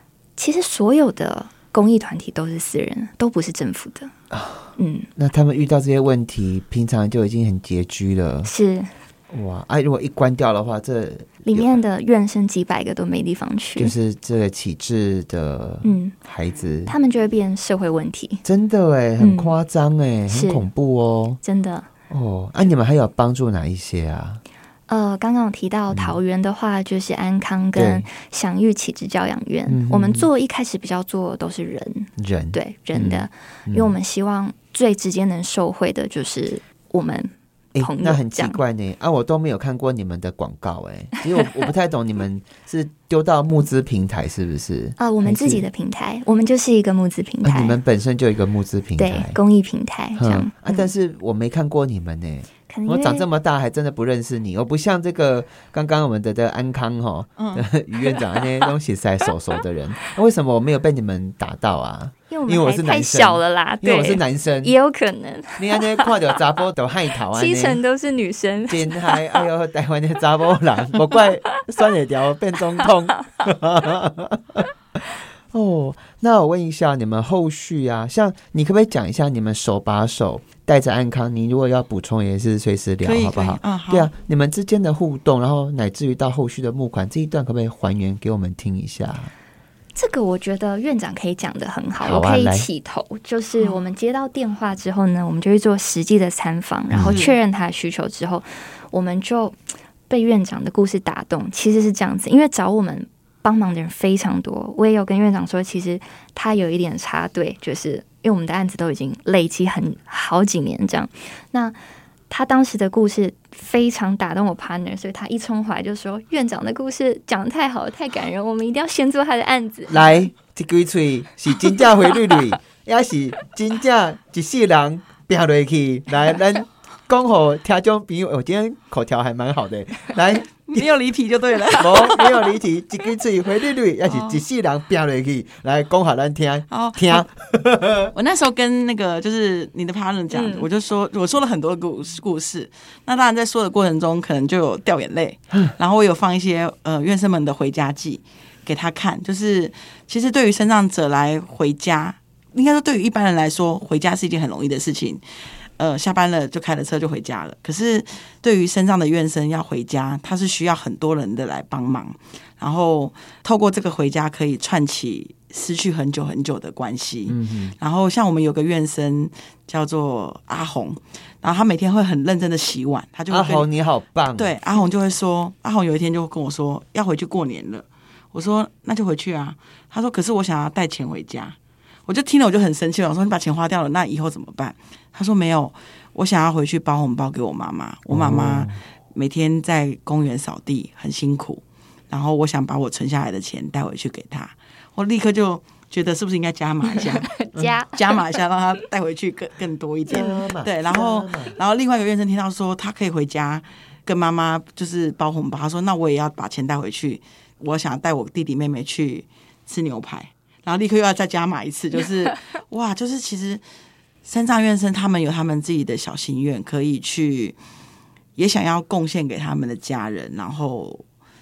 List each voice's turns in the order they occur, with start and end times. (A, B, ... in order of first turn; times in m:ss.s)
0:00.4-0:04.1 A
0:04.3-0:08.5 B
0:04.8-0:05.1 A
0:08.4-0:08.9 A
0:09.3-0:11.8 B
0:11.4-0:13.9 A
0:13.8-0:16.9 B
0:15.8-0:16.1 A
0:16.9-0:18.4 A
0:18.4-0:21.4 B
0:19.2-0:19.6 A
0:20.3-0:20.6 A
0:21.4-0:21.9 A
0:22.1-0:24.4 B
0:24.9-0:38.6 A
0:25.9-0:26.2 B
0:27.7-0:28.0 B
0:29.7-0:30.3 B
0:32.2-0:33.9 B
0:37.7-0:45.6 B
0:45.0-0:47.8 A
0:47.4-0:49.4 B
0:49.0-0:50.9 A
0:50.2-1:04.7 B
0:52.7-0:53.2 A
0:57.4-0:57.6 C
1:02.3-1:06.4 A
1:05.6-1:07.8 B
1:07.3-1:09.4 A
1:08.7-1:14.7 B
1:15.5-1:29.3 B
1:23.0-1:24.1 C
1:29.9-1:39.6 A
1:32.0-1:32.7 B
1:36.9-1:37.2 B
1:37.0-1:37.4 C
1:40.1-1:51.8 A
1:52.3-2:00.1 A
1:59.9-2:10.9 B
2:10.6-2:12.4 C
2:11.7-2:18.1 B
2:16.7-2:17.2 C
2:18.1-2:35.2 C
2:20.3-2:20.7 A
2:35.8-2:53.7 C
2:47.3-2:47.7 B
2:53.3-2:54.5 B
2:54.4-3:33.6 C
3:08.1-3:08.8 B
3:16.9-3:18.2 A
3:20.1-3:21.6 B
3:34.2-3:37.6 C
3:38.4-3:41.0 C